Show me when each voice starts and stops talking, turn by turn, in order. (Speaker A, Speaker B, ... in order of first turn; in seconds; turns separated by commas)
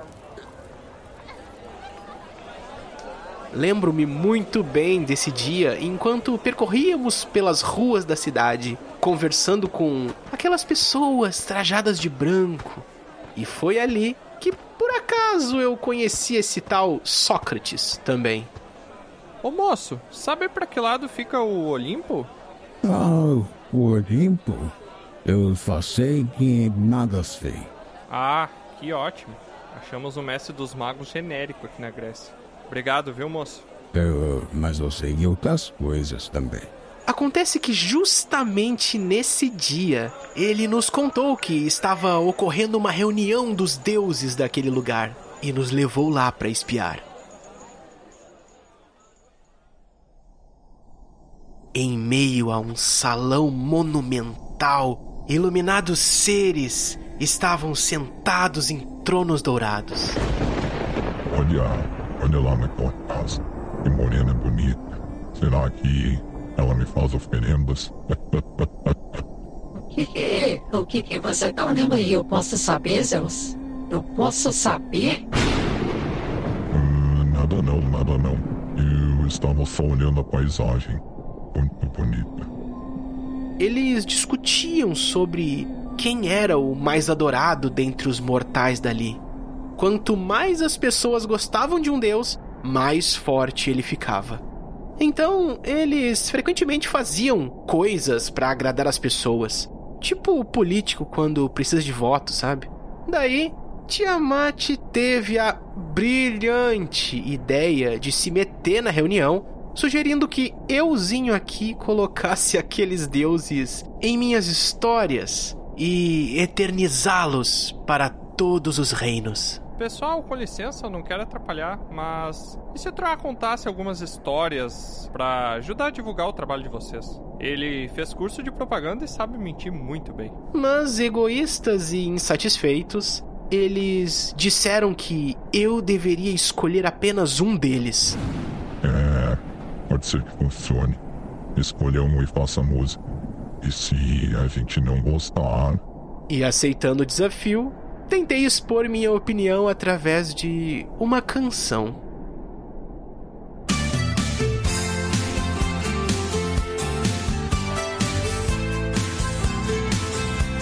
Speaker A: 3.5-18.5, Speaker B: 19.4-22.3, Speaker C: 22.8-24.7, Speaker C: 25.2-27.7, Speaker B: 28.1-33.6, Speaker C: 33.9-36.7, Speaker A: 37.1-47.0, Speaker A: 51.7-60.2, Speaker D: 61.3-69.2, Speaker E: 69.8-75.2, Speaker D: 76.7-81.0, Speaker D: 81.5-82.5, Speaker A: 83.6-89.2, Speaker A: 89.8-94.4, Speaker A: 95.0-119.6, Speaker B: 119.8-130.3, Speaker A: 130.5-138.2, Speaker D: 138.8-141.0, Speaker D: 141.5-143.0, Speaker D: 143.6-145.8, Speaker A: 146.3-152.0